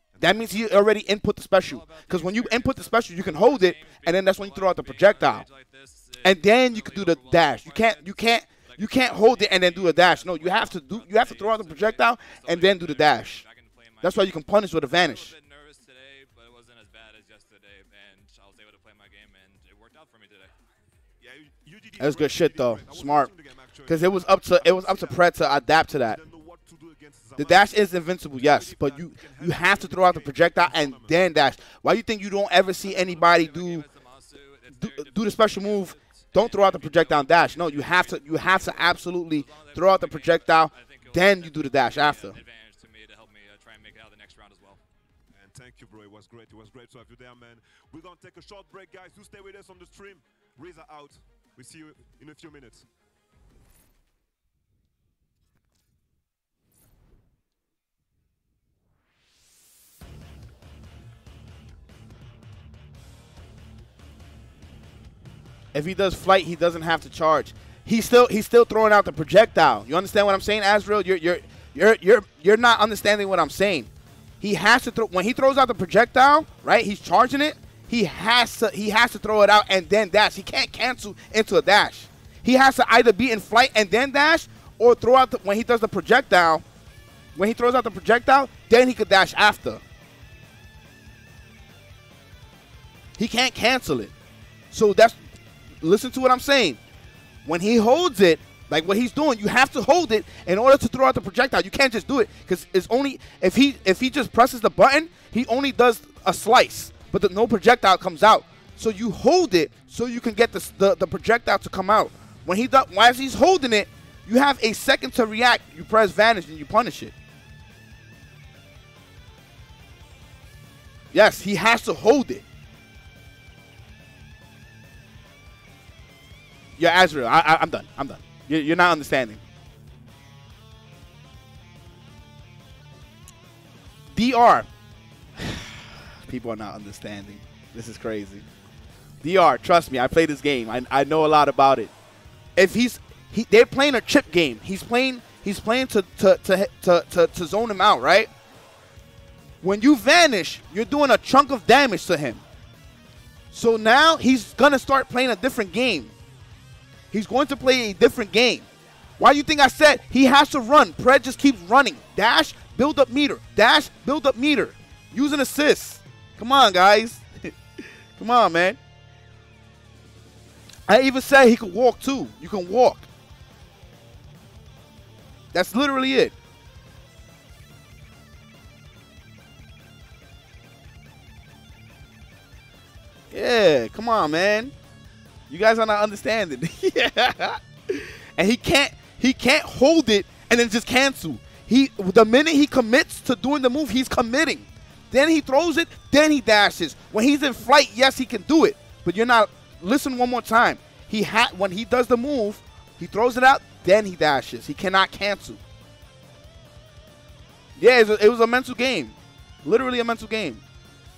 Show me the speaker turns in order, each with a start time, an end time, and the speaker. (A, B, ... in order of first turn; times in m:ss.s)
0:00.2-0:05.5 A
0:01.6-0:20.5 B
0:06.2-0:13.4 A
0:14.0-0:15.3 A
0:21.2-0:22.4 C
0:21.9-0:25.2 B
0:22.0-0:23.3 A
0:23.1-0:24.6 C
0:23.8-0:26.2 A
0:26.2-0:27.7 C
0:27.4-0:33.9 A
0:28.5-0:31.2 B
0:30.0-0:30.8 C
0:32.8-0:44.8 B
0:34.7-0:42.4 A
0:45.3-0:52.8 C
1:05.7-1:13.9 A
1:14.4-1:26.6 A
1:27.4-1:29.8 A
1:33.2-1:34.1 A
1:34.7-1:35.2 A
1:35.8-1:36.8 A
1:37.4-1:57.1 A
2:01.1-2:02.4 A
2:06.8-2:09.4 A
2:14.1-2:14.7 A
2:15.4-2:18.4 A
2:19.2-2:21.9 A
2:22.6-2:28.3 A
2:29.6-2:32.4 A
2:33.5-2:36.1 A
2:37.1-2:38.7 A
2:39.2-2:48.8 A
2:50.9-2:53.1 A
2:55.5-2:56.3 A
3:03.3-3:04.7 A
3:05.5-3:25.6 A
3:27.8-3:30.6 A